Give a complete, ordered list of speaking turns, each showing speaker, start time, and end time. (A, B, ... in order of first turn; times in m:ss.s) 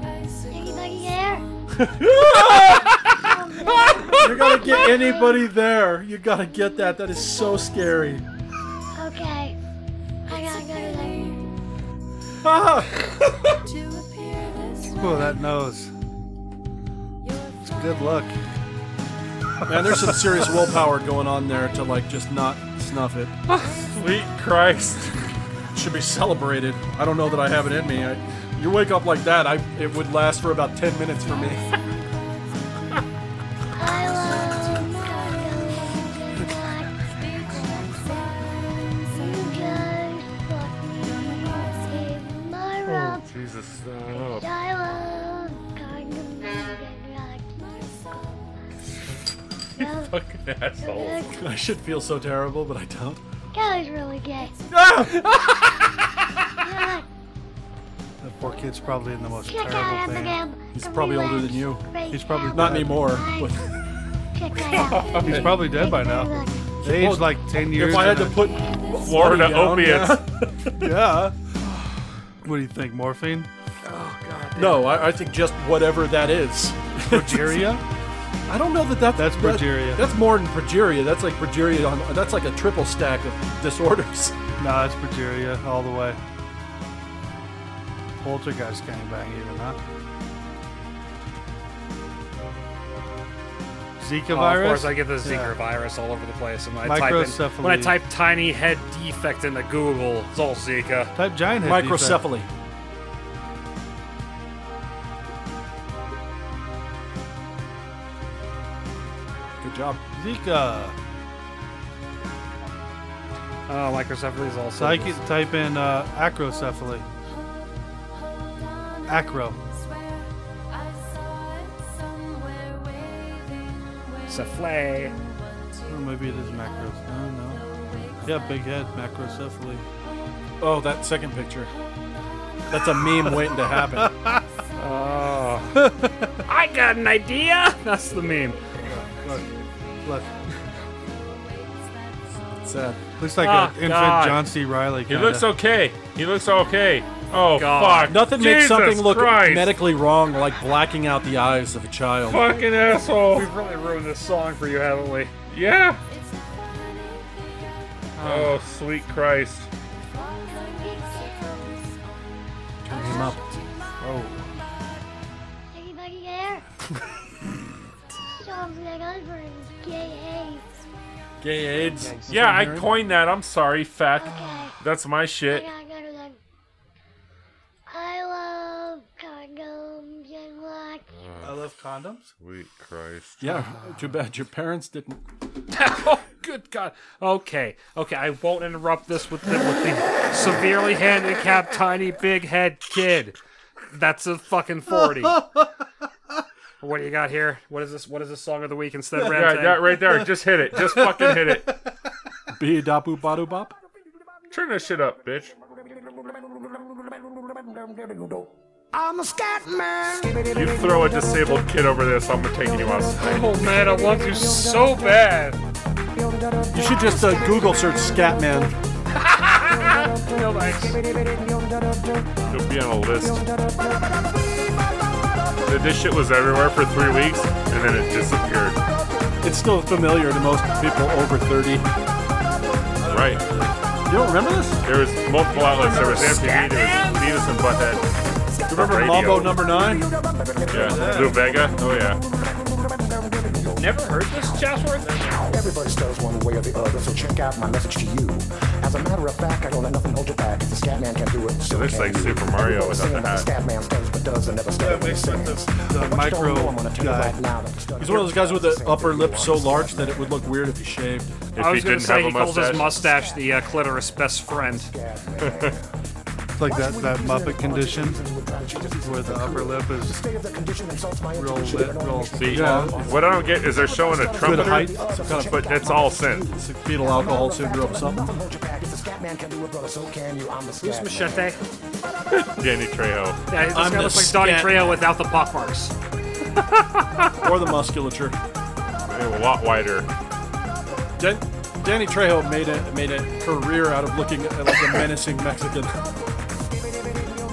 0:00.4-0:01.5 A
0:01.7-0:03.1 B
0:02.3-0:05.5 A
0:04.1-0:08.2 B
0:08.9-0:09.6 A
0:10.2-0:11.6 A
0:12.4-0:13.0 B
0:14.9-0:15.9 C
0:17.6-0:18.4 C
0:19.6-0:23.3 B
0:19.7-0:20.3 C
0:23.5-0:25.2 D
0:25.7-0:31.7 B
0:33.7-0:38.5 A
0:39.0-0:43.3 A
0:42.8-0:44.5 D
0:44.1-0:48.6 A
0:49.8-0:50.2 A
0:49.8-0:51.3 D
0:50.8-0:51.5 A
0:51.3-0:53.2 B
0:53.5-0:54.6 A
0:54.7-0:55.6 B
0:56.6-0:57.1 A
0:58.2-1:00.4 C
0:59.4-1:03.7 A
1:00.7-1:01.9 B
1:02.1-1:03.2 C
1:02.5-1:03.6 B
1:04.3-1:06.8 A
1:04.6-1:05.6 D
1:05.2-1:08.5 C
1:06.8-1:10.9 B
1:09.0-1:10.2 D
1:10.8-1:11.3 C
1:12.4-1:13.5 C
1:13.8-1:14.9 E
1:14.5-1:17.8 B
1:17.0-1:17.8 C
1:18.5-1:24.4 B
1:19.1-1:20.2 C
1:24.6-1:26.2 C
1:28.2-1:29.8 C
1:34.0-1:35.6 C
1:34.3-1:41.1 E
1:36.8-1:38.0 C
1:41.1-1:42.2 C
1:41.6-1:42.5 B
1:49.6-1:50.0 B
1:50.1-1:51.0 C
1:53.7-1:55.2 E
1:54.8-1:57.0 C
1:59.1-1:59.6 C
2:04.3-2:05.1 E
2:05.8-2:07.6 C
2:08.2-2:09.8 C
2:10.6-2:11.7 B
2:12.7-2:14.1 B
2:13.2-2:14.4 C
2:14.8-2:15.8 E
2:15.7-2:16.4 C
2:16.4-2:18.6 E
2:18.9-2:19.5 C
2:20.0-2:20.3 C
2:22.6-2:23.0 B
2:23.2-2:25.5 C
2:23.4-2:24.4 E
2:25.1-2:29.8 D
2:27.5-2:28.2 E
2:28.1-2:32.5 B
2:32.2-2:33.5 D
2:33.2-2:35.3 E
2:35.5-2:36.0 D
2:38.2-2:38.6 E
2:38.2-2:39.7 D
2:40.3-2:42.0 A
2:42.8-2:43.4 B
2:44.0-2:44.5 C
2:45.7-2:46.6 A
2:48.4-2:50.8 A
2:51.4-2:52.9 B
2:52.3-2:55.7 D
2:54.2-2:54.7 A
2:55.4-2:56.4 A
2:57.9-3:01.0 A
3:01.2-3:01.5 D
3:01.4-3:02.3 C
3:02.4-3:03.7 D
3:03.4-3:05.2 B
3:05.7-3:13.4 E
3:13.9-3:15.4 E
3:15.2-3:15.6 C
3:16.8-3:19.9 E
3:19.3-3:21.8 D
3:22.5-3:23.7 B
3:24.5-3:25.5 D
3:26.0-3:31.1 F
3:30.4-3:34.1 D
3:33.2-3:35.6 E
3:36.7-3:38.8 B
3:36.7-3:37.6 F
3:39.1-3:41.1 E
3:41.2-3:41.8 F
3:42.5-3:43.4 D
3:45.6-3:48.8 D
3:49.4-3:51.9 B
3:53.0-3:53.7 C
3:53.1-3:53.4 D
3:54.1-3:54.8 B
3:54.8-3:58.0 D
3:55.5-3:57.3 E
3:58.7-3:59.6 D
3:58.7-4:00.1 B
3:59.0-4:04.6 F
4:00.7-4:02.2 D
4:00.8-4:01.4 C
4:03.8-4:05.4 E
4:05.4-4:20.4 F
4:11.7-4:13.5 D
4:14.8-4:17.4 C
4:18.0-4:21.4 B
4:21.5-4:23.0 D
4:21.6-4:24.9 E
4:22.6-4:26.0 F
4:25.4-4:25.7 D
4:26.6-4:28.2 C
4:26.6-4:41.6 F
4:29.0-4:30.2 C
4:31.3-4:32.8 C
4:32.3-4:34.9 D
4:32.5-4:33.0 B
4:34.4-4:35.6 B
4:35.4-4:36.6 D
4:36.5-4:38.3 B
4:40.8-4:41.6 E
4:42.3-4:43.4 D
4:43.5-4:45.9 E
4:43.7-4:45.0 B
4:46.8-4:47.3 D
4:47.4-4:48.4 B
4:49.0-4:50.1 D
4:51.2-4:55.9 B